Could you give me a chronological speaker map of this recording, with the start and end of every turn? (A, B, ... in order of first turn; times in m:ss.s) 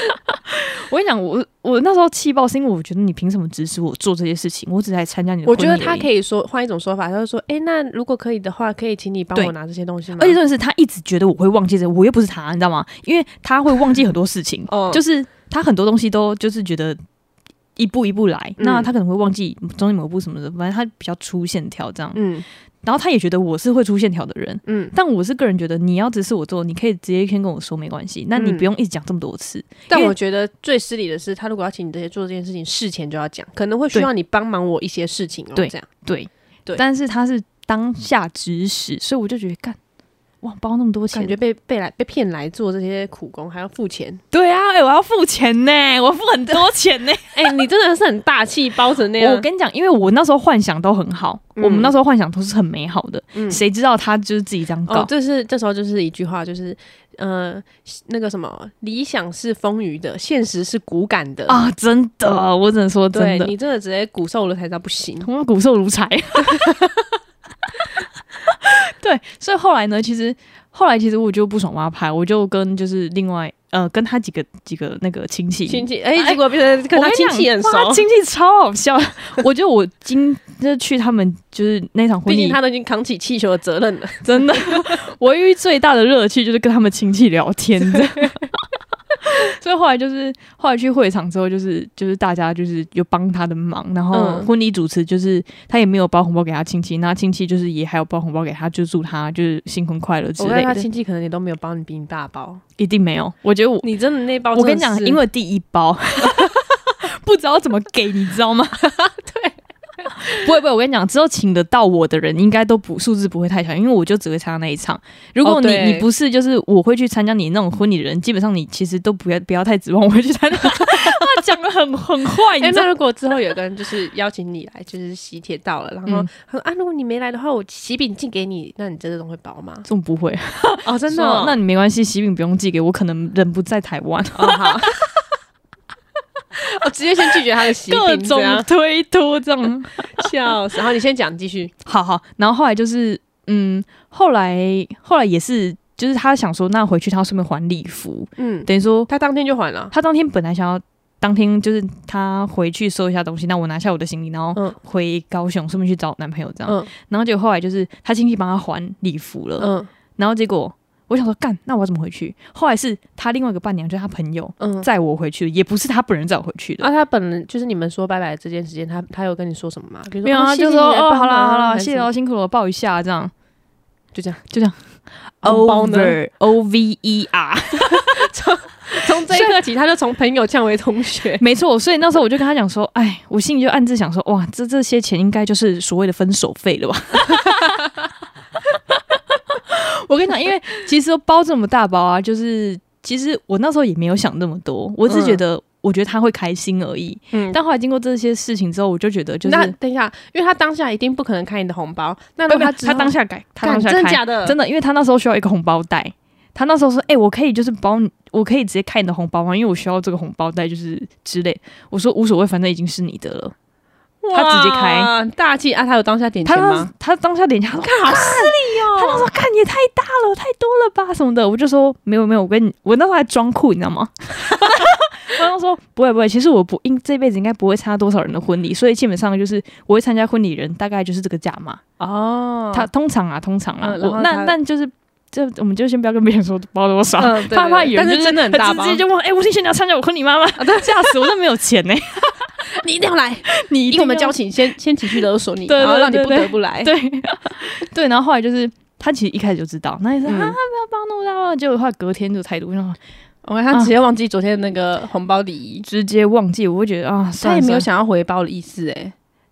0:00.5-0:06.1 A
0:05.4-0:10.4 B
0:10.2-0:17.0 A
0:14.7-0:15.0 B
0:17.8-0:22.2 A
0:18.6-0:18.9 B
0:22.1-0:22.4 B
0:22.8-0:30.1 A
0:24.6-0:24.9 B
0:28.4-0:28.7 B
0:29.9-0:35.9 B
0:35.6-0:39.8 A
0:40.4-0:41.4 A
0:41.1-0:44.2 B
0:44.3-0:47.5 A
0:47.3-0:49.4 B
0:49.2-0:55.1 A
0:51.6-0:51.9 B
0:53.3-0:53.6 B
0:54.9-1:01.6 B
1:01.5-1:03.5 A
1:03.1-1:05.3 B
1:05.2-1:06.9 A
1:08.4-1:22.6 A
1:15.7-1:18.0 B
1:22.2-1:25.0 B
1:24.2-1:28.6 A
1:29.2-1:40.8 A
1:34.1-1:34.5 B
1:40.4-1:42.6 B
1:42.8-1:43.9 A
1:43.8-1:45.2 B
1:44.5-1:48.8 A
1:46.2-1:46.6 B
1:48.8-1:50.4 B
1:50.2-2:02.9 A
1:55.4-1:56.1 B
2:00.7-2:01.2 B
2:02.6-2:09.9 B
2:09.8-2:15.0 A
2:10.8-2:11.6 B
2:14.3-2:14.9 B
2:16.6-2:18.7 B
2:17.4-2:20.3 A
2:20.1-2:21.7 B
2:21.8-2:29.1 A
2:28.4-2:29.9 B
2:29.9-2:46.9 A
2:36.6-2:36.9 B
2:39.6-2:39.9 B
2:44.6-2:44.9 B
2:46.8-2:52.1 B
2:50.2-2:53.3 A
2:54.1-2:54.4 B
2:54.5-2:54.8 A
2:55.4-2:58.2 A
2:55.4-2:56.2 B
2:57.8-3:01.4 B
2:59.0-2:59.6 A
3:01.4-3:07.8 A
3:08.9-3:19.7 A
3:15.1-3:15.4 B
3:17.3-3:17.6 B
3:19.4-3:24.6 B
3:22.5-3:33.5 A
3:34.2-3:36.9 B
3:34.3-3:35.1 A
3:36.4-3:51.8 A
3:37.8-3:39.3 B
3:52.0-3:52.9 B
3:52.7-4:02.5 A
3:53.8-3:54.5 B
3:57.2-3:59.0 B
4:00.6-4:01.3 B
4:02.6-4:06.9 B
4:03.5-4:04.4 A
4:05.1-4:13.0 A
4:10.2-4:10.6 B
4:13.4-4:15.8 B
4:15.8-4:17.9 A
4:17.4-4:19.1 B